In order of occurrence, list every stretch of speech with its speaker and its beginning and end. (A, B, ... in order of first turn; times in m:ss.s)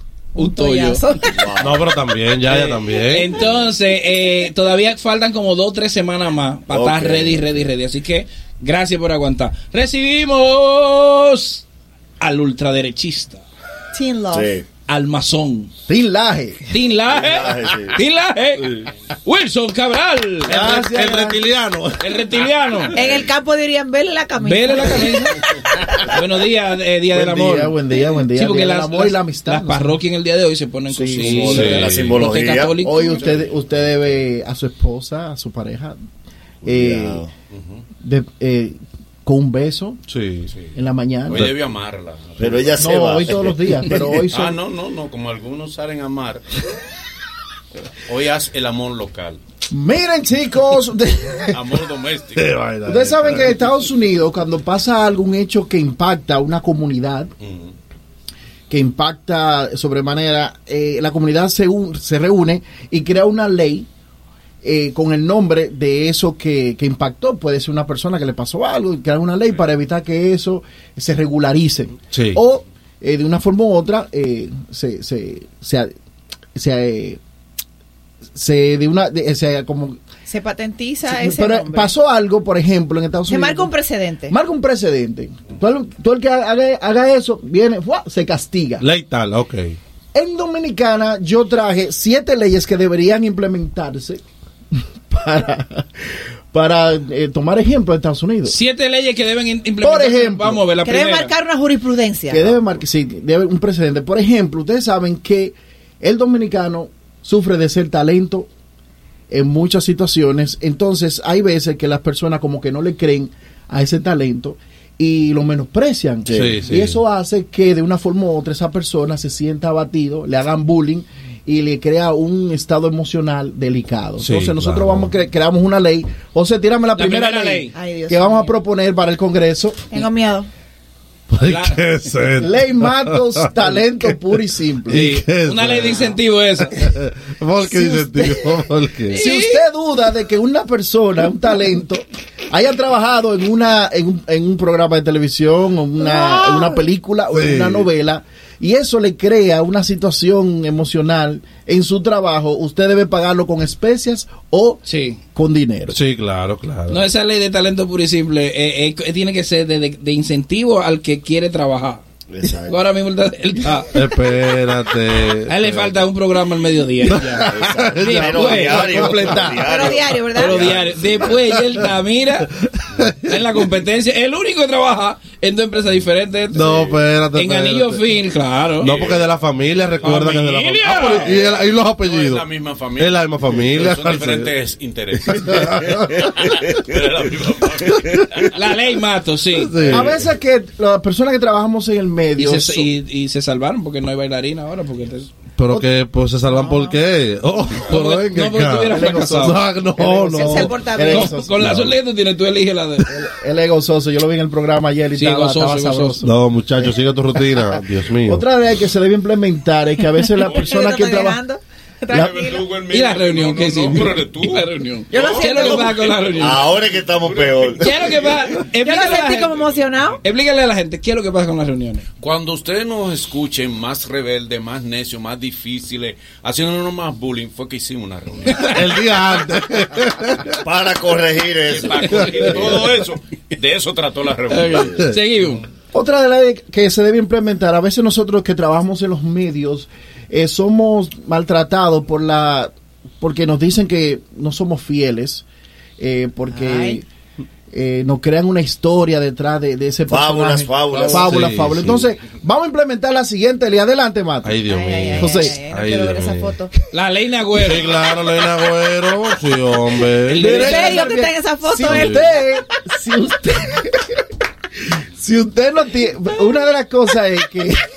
0:00.4-0:01.0 A
0:00.4-0:01.5 B
0:01.3-0:01.8 C
0:01.6-0:03.3 D
0:02.5-0:11.6 A
0:06.7-0:07.4 C
0:12.2-0:13.4 A
0:13.9-0:14.5 B
0:14.3-0:14.6 C
0:14.9-0:15.7 A
0:15.9-0:16.7 E
0:16.7-0:20.6 A
0:17.1-0:18.0 C
0:20.5-0:21.4 E
0:20.5-0:22.4 D
0:22.0-0:23.0 A
0:22.9-0:26.1 B
0:23.0-0:23.3 C
0:24.4-0:25.5 A
0:26.0-0:33.3 A
0:27.1-0:30.0 E
0:30.9-0:31.7 E
0:31.2-0:32.2 D
0:31.4-0:32.8 C
0:32.8-0:36.0 E
0:36.6-0:37.3 C
0:36.6-0:37.2 E
0:37.5-0:37.8 F
0:38.0-0:40.0 E
0:40.1-0:40.5 D
0:40.7-0:41.5 E
0:41.3-0:42.8 F
0:41.3-0:41.6 D
0:42.4-0:44.0 C
0:42.8-0:44.6 E
0:44.1-0:46.4 F
0:48.0-0:49.4 F
0:49.7-0:51.6 E
0:51.5-0:52.6 F
0:52.4-0:53.5 D
0:52.8-0:57.3 E
0:57.4-0:57.7 F
0:58.7-1:03.9 E
1:04.6-1:15.9 E
1:12.1-1:12.4 D
1:16.6-1:17.2 E
1:18.4-1:20.0 E
1:20.2-1:21.9 B
1:21.1-1:23.7 E
1:23.3-1:24.3 B
1:24.3-1:28.8 E
1:28.8-1:29.8 D
1:30.1-1:34.2 E
1:35.1-1:38.5 E
1:38.4-1:41.3 A
1:39.8-1:40.6 E
1:40.8-1:42.6 B
1:42.3-1:48.5 E
1:49.3-2:09.9 E
1:56.2-1:56.6 C
1:56.3-1:57.0 D
2:04.2-2:05.1 D
2:07.0-2:07.7 A
2:07.7-2:08.6 B
2:09.9-2:10.5 B
2:11.3-2:13.6 D
2:11.4-2:11.8 A
2:12.4-2:15.1 E
2:14.9-2:16.9 A
2:14.9-2:19.2 D
2:15.8-2:16.1 B
2:17.6-2:18.6 E
2:19.1-2:19.6 A
2:19.1-2:34.8 E
2:26.1-2:26.8 B
2:27.3-2:27.9 D
2:34.8-2:35.2 A
2:35.3-2:36.0 E
2:35.9-2:37.0 D
2:36.9-2:44.0 A
2:42.3-2:42.8 C
2:43.9-2:46.0 D
2:45.5-2:49.3 A
2:47.0-2:49.3 D
2:47.4-2:51.4 C
2:48.8-2:49.7 E
2:49.6-2:50.6 B
2:50.3-2:52.5 A
2:52.9-2:53.5 D
2:53.2-2:56.8 A
2:56.5-2:58.1 D
2:56.7-2:57.0 C
2:57.3-2:58.9 A
2:58.8-3:02.4 D
2:58.8-2:59.4 F
3:00.0-3:01.3 A
3:01.0-3:08.5 F
3:03.0-3:04.5 D
3:05.3-3:06.3 D
3:08.5-3:09.8 A
3:09.6-3:10.2 D
3:09.8-3:12.9 E
3:12.4-3:15.3 A
3:15.6-3:20.8 D
3:16.5-3:17.0 B
3:17.9-3:19.6 A
3:18.8-3:21.7 E
3:20.3-3:21.4 B
3:21.1-3:23.2 A
3:21.6-3:21.9 D
3:23.1-3:26.9 E
3:25.1-3:26.2 A
3:26.2-3:28.4 D
3:28.2-3:31.4 E
3:30.0-3:32.6 B
3:30.4-3:31.0 F
3:32.1-3:38.4 F
3:32.9-3:36.7 A
3:35.1-3:35.9 B
3:36.4-3:38.0 C
3:37.8-3:39.6 A
3:38.7-3:40.2 B
3:39.5-3:39.8 F
3:40.2-3:42.0 A
3:42.2-3:48.9 F
3:48.7-3:50.6 D
3:50.6-3:52.7 C
3:51.7-3:55.0 F
3:52.2-3:52.6 D
3:54.5-3:55.6 A
3:54.8-3:55.2 D
3:55.9-4:05.4 E
4:06.0-4:07.0 E
4:06.5-4:07.0 B
4:07.7-4:14.6 E
4:10.1-4:11.4 C
4:11.0-4:12.1 D
4:14.4-4:16.6 D
4:14.6-4:16.7 B
4:15.1-4:15.6 E
4:16.9-4:17.9 A
4:17.6-4:20.6 D
4:20.3-4:21.0 A
4:20.3-4:24.2 E
4:20.5-4:22.2 B
4:21.8-4:22.3 D
4:25.2-4:27.8 E